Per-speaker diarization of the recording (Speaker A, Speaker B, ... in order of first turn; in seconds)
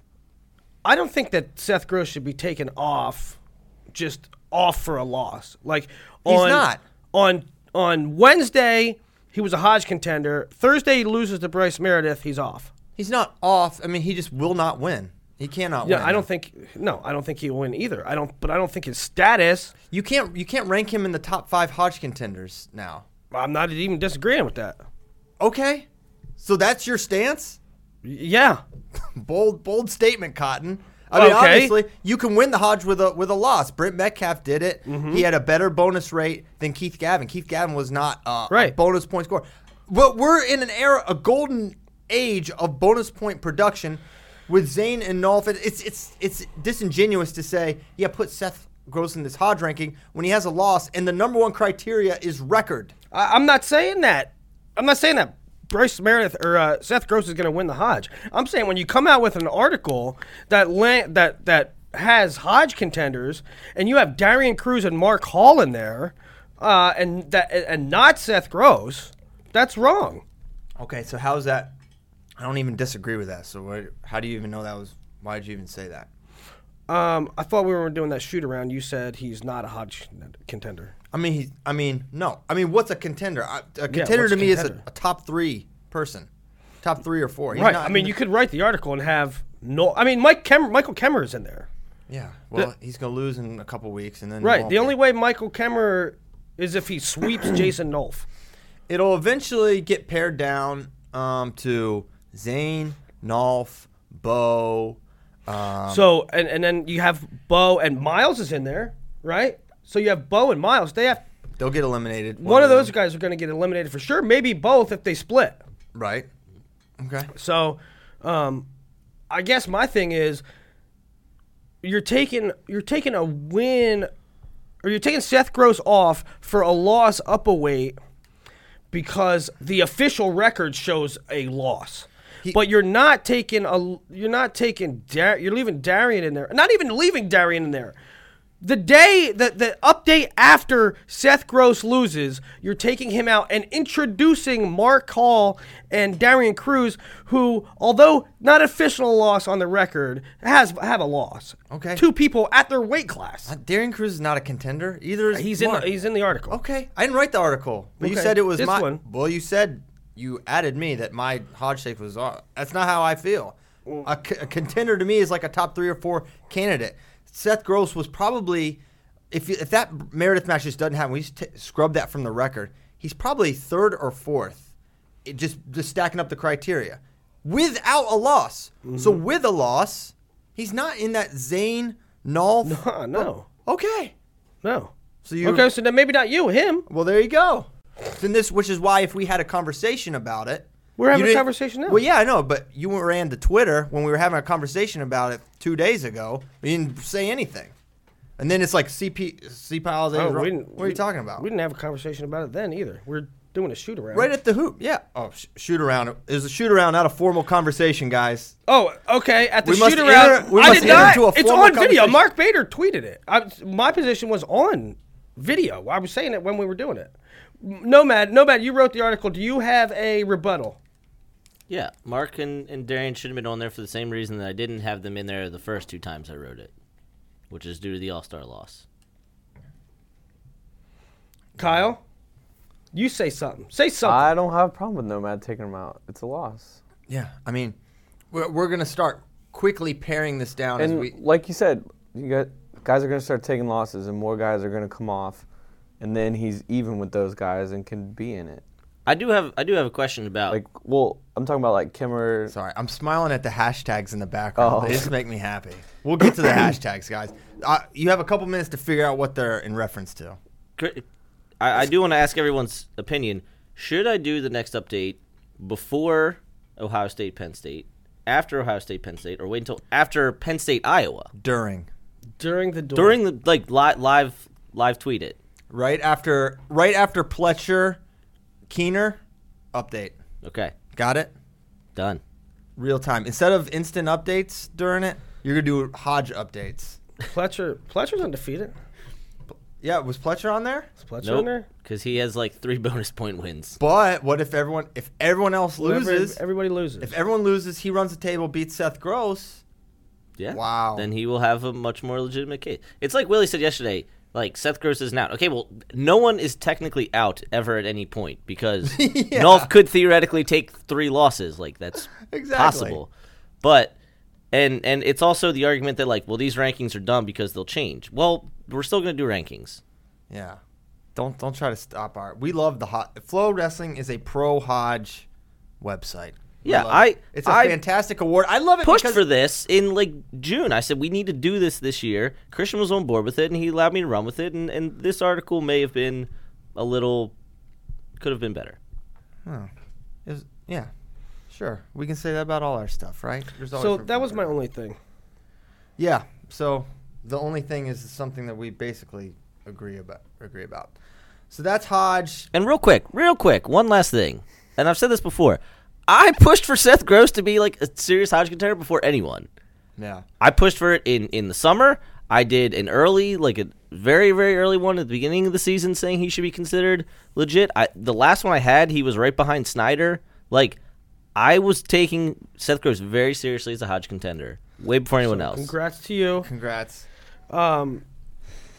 Speaker A: 0.8-3.4, 3.9-12.7, 15.8-19.7, 23.3-24.8, 28.0-28.6, 31.1-31.8, 34.9-35.3, 38.5-38.8, 53.1-70.2, 76.9-80.9, 83.9-84.8, 87.5-91.7, 94.4-98.3, 105.9-111.2, 112.4-115.6, 117.3-118.7, 119.3-120.4, 121.8-124.1, 124.8-128.0, 128.9-138.0, 138.6-153.5, 155.3-156.6, 158.0-159.0, 178.8-179.2, 182.6-183.5, 184.6-186.9, 191.0-192.0, 200.1-204.3, 208.7-220.8, 231.6-232.0, 232.9-234.3, 272.4-273.2, 287.2-288.7, 291.0-291.7, 295.8-297.2, 343.8-345.0, 375.2-376.5, 377.5-378.0
Speaker B: 6.3-6.8, 13.0-16.3, 19.9-23.1, 25.4-27.6, 29.0-52.9, 70.8-71.7, 72.4-76.1, 81.1-86.3, 86.8-88.1, 92.1-95.0, 98.9-106.1, 111.6-112.9, 115.9-116.3, 117.0-117.3, 151.7-152.0, 153.5-155.9, 156.5-168.8, 169.3-174.7, 175.2-184.1, 185.2-185.7, 186.9-197.7, 198.4-201.5, 204.1-208.6, 209.6-212.2, 231.6-231.8, 237.1-237.8, 238.3-241.2, 252.5-260.4, 271.4-271.9, 275.7-278.0, 278.7-279.2, 279.7-280.2, 280.9-281.3, 282.8-287.0, 289.5-290.9, 293.8-296.4, 297.0-299.6, 300.5-301.1, 308.9-309.7, 312.3-313.0, 320.3-320.6, 321.1-325.3, 325.8-329.2, 339.4-339.7, 340.3-340.9, 341.5-344.5, 346.0-350.9, 351.5-352.5, 360.0-360.2, 376.4-377.1
Speaker C: 221.7-226.7, 227.5-228.8, 249.1-250.6, 260.8-261.0, 261.6-271.3, 272.9-275.4, 280.4-280.8, 282.0-282.2, 291.2-293.8, 300.4-313.1, 313.6-313.9, 314.5-319.8, 326.6-327.8, 328.8-337.3, 338.2-338.8, 352.5-359.5, 360.4-370.8, 371.4-375.7
Speaker D: 234.0-236.8, 240.8-245.4, 246.0-248.6, 250.5-252.5, 254.6-255.1